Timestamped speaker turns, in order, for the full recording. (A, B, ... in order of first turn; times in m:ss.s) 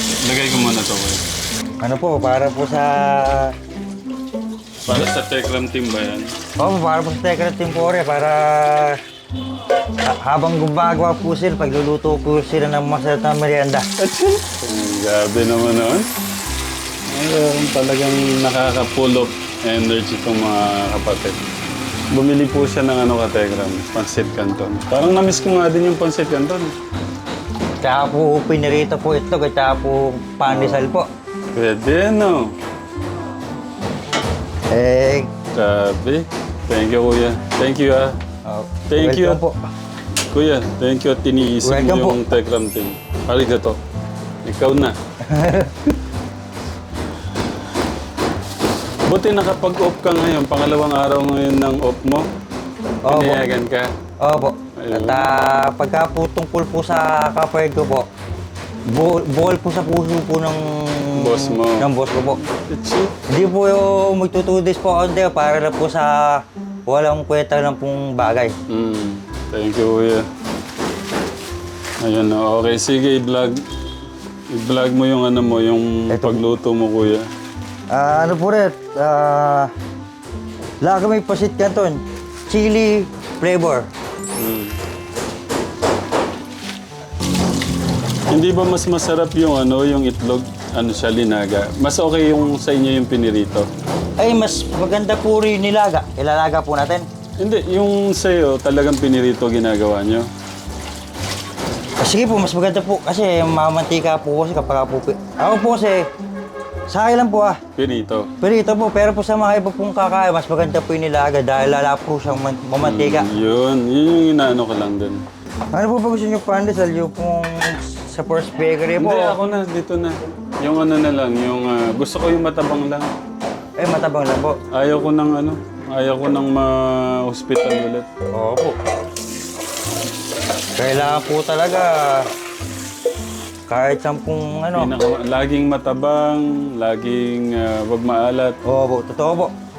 0:00.2-0:01.2 A
0:01.8-0:03.6 B
0:04.8-0:06.3 A
0:06.6-0:09.0 B
0:10.0-0:13.9 B
0:14.0-0:16.1 A
0:17.1-0:21.4 A
0:22.1-0:26.8 A
0:27.8-0:31.1 B
0:30.5-0:30.8 A
0:31.5-0:32.5 A
0:34.7-0:35.3 B
0:35.5-0:38.2 A
0:38.4-0:39.6 B
0:38.9-0:39.4 A
0:40.3-0:43.8 A
0:41.6-0:42.2 B
0:44.4-0:45.0 A
0:45.2-0:45.7 B
0:49.1-0:52.3 A
0:53.1-0:53.4 B
0:53.1-0:53.9 A
0:54.2-0:58.1 B
0:54.8-0:55.3 A
0:58.9-1:02.4 B
1:01.2-1:03.1 A
1:03.3-1:08.6 B
1:08.7-1:10.3 A
1:12.0-1:13.6 A
1:14.5-1:17.3 A
1:16.1-1:16.4 B
1:17.9-1:19.7 B
1:20.8-1:23.9 B
1:24.4-1:24.8 A
1:28.3-1:33.7 A
1:34.2-1:37.1 B
1:37.4-1:40.3 A
1:42.0-1:46.1 B
1:46.9-1:47.6 B
1:47.8-1:48.3 A
1:48.4-1:53.3 B
1:52.8-1:55.2 A
1:55.7-1:59.4 B
1:59.0-2:03.1 A
2:03.8-2:04.6 B
2:04.7-2:08.1 A
2:08.3-2:08.8 B
2:10.8-2:12.3 B
2:13.7-2:14.9 B
2:14.8-2:18.6 A
2:18.7-2:19.5 B